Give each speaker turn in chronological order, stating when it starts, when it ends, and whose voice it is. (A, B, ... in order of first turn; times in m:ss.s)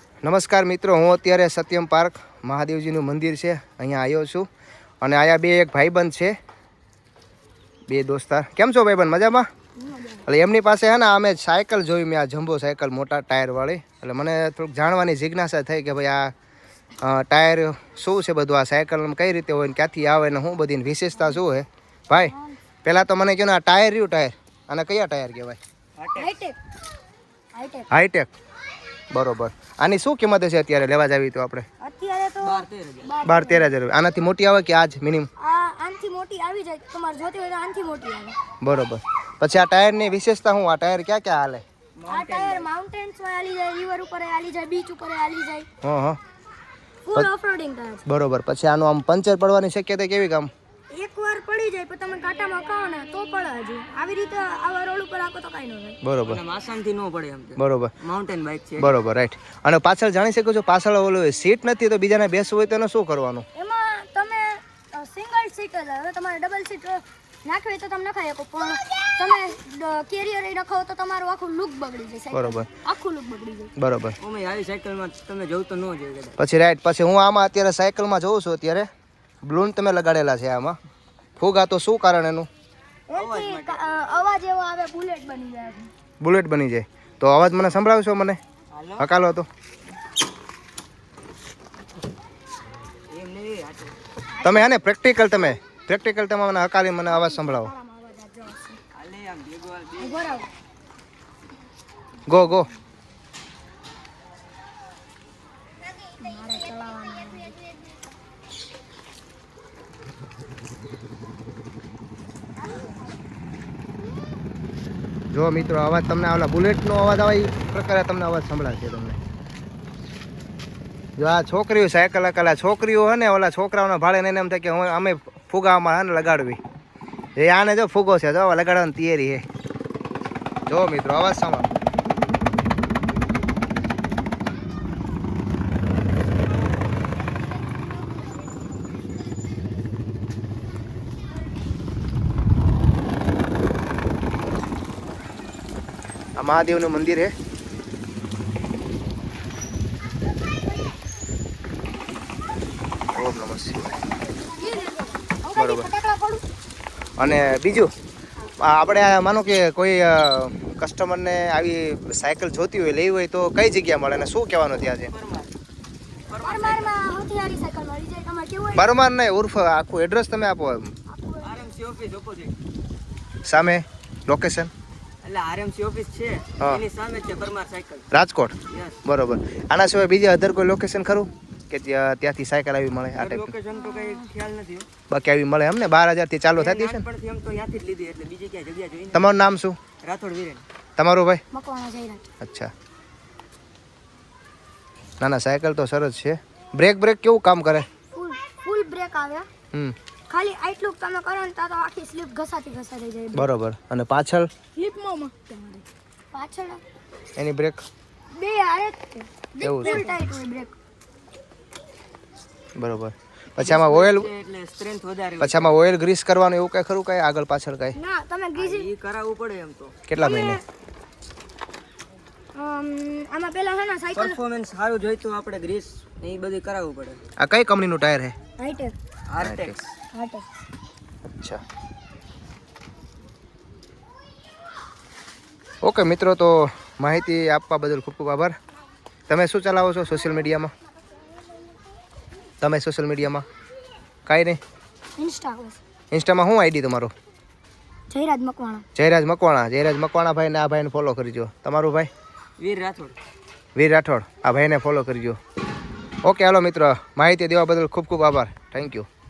0:00.2-0:04.5 A
0:05.0-0:06.4 A
0:07.9-0:09.5 A
0:09.8-0:10.2 B
0:10.3-0:16.3 A
0:17.0-0:22.3 A
0:22.1-0:22.6 B
0:22.8-0:25.6 A
0:26.0-0:26.3 C
0:26.1-0:26.6 B
0:27.5-0:27.9 B
0:27.9-0:28.3 A
0:29.1-0:31.6 A
0:31.8-0:33.7 B
0:32.4-0:33.1 C
0:33.2-0:35.3 A
0:35.4-0:38.4 B
0:38.6-0:41.6 A
0:42.0-0:42.7 C
0:42.1-0:45.7 B
0:45.8-0:46.2 A
0:47.0-0:48.0 B
0:48.0-0:50.5 A
0:50.9-0:56.0 B
0:56.0-0:56.4 A
0:56.2-0:59.0 C
0:57.6-0:57.9 A
0:58.8-1:03.4 A
1:03.6-1:13.7 B
1:12.3-1:12.7 A
1:13.8-1:14.2 A
1:14.2-1:16.4 C
1:16.4-1:18.9 A
1:19.4-1:20.8 A
1:21.4-1:22.5 A
1:23.1-1:25.9 B
1:23.1-1:23.8 C
1:26.2-1:28.4 A
1:28.7-1:29.1 C
1:29.0-1:29.5 A
1:33.1-1:34.0 C
1:34.3-1:34.7 B
1:34.4-1:37.7 A
1:37.1-1:38.8 B
1:38.9-1:40.3 C
1:40.0-1:40.5 B
1:42.3-1:42.7 A
1:42.3-1:42.7 B
1:46.2-1:47.6 B
1:55.3-1:59.2 A
2:01.2-2:06.6 A
2:07.4-2:09.4 A
2:10.7-2:11.7 A
2:26.4-2:27.3 A
2:33.1-2:34.0 A
2:34.6-2:36.4 B
2:35.6-2:35.9 A
2:37.2-2:37.9 A
2:38.6-2:45.1 A
2:45.1-2:45.5 C
2:46.3-2:47.0 C
2:46.4-2:48.9 B
2:48.8-2:50.9 A
2:51.1-2:51.6 B
2:51.4-2:52.6 C
2:53.4-2:54.7 A
2:55.2-2:58.1 C
2:58.1-3:03.6 A
2:58.7-2:59.0 C
3:03.2-3:04.9 C
3:03.7-3:04.3 B
3:05.1-3:07.0 A
3:06.6-3:09.3 C
3:09.1-3:09.8 A
3:10.0-3:10.6 C
3:11.0-3:11.4 A
3:11.5-3:12.2 B
3:12.4-3:12.7 A
3:15.2-3:17.9 A
3:18.1-3:19.5 B
3:20.3-3:23.5 B
3:23.3-3:24.5 A
3:24.7-3:26.8 B
3:27.4-3:27.8 A
3:28.3-3:30.8 B
3:29.6-3:30.1 A
3:32.8-3:34.3 A
3:33.6-3:35.8 C
3:35.4-3:38.0 A
3:37.9-3:38.9 B
3:38.6-3:40.0 C
3:40.1-3:40.6 A
3:40.2-3:40.6 B
3:42.6-3:44.4 B
3:44.1-3:47.2 C
3:47.4-3:48.3 A
3:48.6-3:48.9 B
3:49.3-3:49.9 C
3:49.4-3:49.8 A
3:50.1-3:50.5 B
3:51.4-3:51.6 A
3:55.8-3:58.6 A
3:59.3-4:00.7 A
4:02.6-4:03.5 A
4:04.2-4:04.6 A
4:05.2-4:05.8 B
4:06.1-4:07.1 A
4:08.1-4:08.8 B
4:09.0-4:12.1 A
4:12.6-4:13.2 C
4:13.8-4:15.4 A
4:16.2-4:19.1 A